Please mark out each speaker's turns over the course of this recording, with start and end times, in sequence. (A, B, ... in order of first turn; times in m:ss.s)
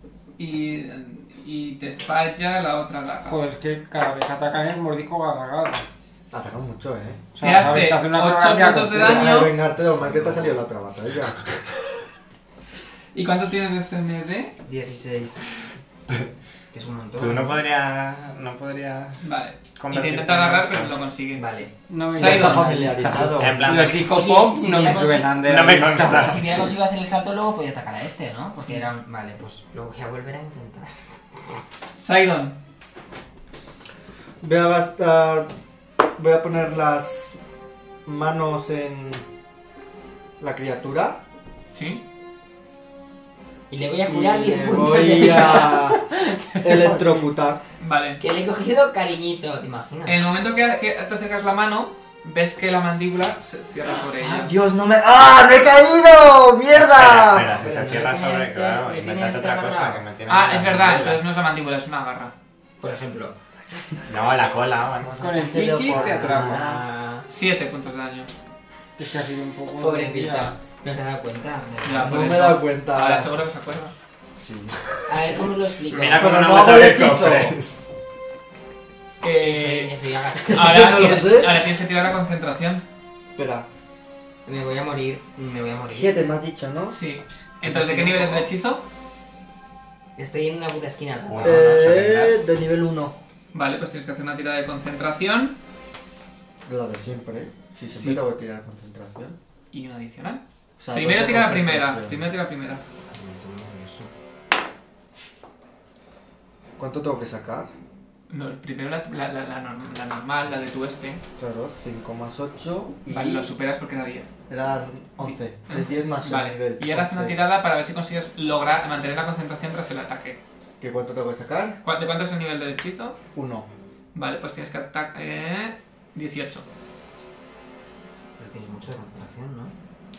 0:00.4-0:03.4 A
0:03.2-0:05.8 B
0:06.3-0:07.7 C
0:07.4-0:09.4 B
0:07.4-0:09.6 A
0:09.0-0:11.4 C
0:13.1-0:14.6 A
0:14.6-0:15.4 D
0:16.7-0:17.6 D
0:17.2-0:21.0 E
0:19.2-0:21.4 A
0:21.3-0:21.7 D
0:21.9-0:26.4 B
0:22.1-0:22.8 A
0:22.1-0:23.6 C
0:23.4-0:24.2 E
0:23.6-0:31.0 D
0:25.4-0:26.6 E
0:28.6-0:28.8 A
0:32.0-0:32.6 A
0:34.4-0:35.5 C
0:36.2-0:37.3 C
0:38.0-0:39.2 C
0:40.4-0:41.2 C
0:41.7-0:42.0 A
0:43.7-0:46.9 D
0:44.0-0:46.0 C
0:46.6-0:47.6 C
0:47.8-0:48.2 A
0:48.2-0:50.3 D
0:50.0-0:54.6 A
0:54.2-0:58.0 C
0:56.7-1:01.2 E
0:57.6-1:00.0 D
1:00.3-1:02.3 A
1:02.8-1:03.4 D
1:04.0-1:05.6 E
1:05.2-1:06.6 B
1:05.4-1:06.8 C
1:05.8-1:07.3 D
1:07.3-1:08.3 A
1:09.0-1:10.6 B
1:09.8-1:12.5 D
1:11.8-1:13.9 A
1:12.0-1:13.3 C
1:14.4-1:15.1 C
1:15.1-1:16.4 D
1:15.9-1:17.8 E
1:16.1-1:17.6 C
1:19.2-1:19.9 A
1:19.4-1:21.2 D
1:20.4-1:21.7 C
1:20.5-1:22.8 A
1:23.3-1:23.7 C
1:24.4-1:26.2 D
1:25.9-1:27.0 C
1:26.9-1:28.8 A
1:27.6-1:28.4 D
1:30.2-1:31.9 D
1:31.2-1:32.4 E
1:31.4-1:33.2 C
1:33.5-1:35.6 A
1:36.6-1:39.4 C
1:37.9-1:38.2 A
1:39.7-1:40.4 A
1:40.8-1:42.2 C
1:40.9-1:42.8 A
1:43.1-1:44.1 D
1:46.8-1:47.7 C
1:48.3-1:51.2 A
1:51.4-1:53.5 C
1:53.1-1:54.3 A
1:54.5-1:57.4 C
1:55.2-2:00.4 A
2:00.8-2:01.8 C
2:01.8-2:03.2 A
2:03.3-2:03.7 C
2:04.1-2:06.6 A
2:08.4-2:09.7 D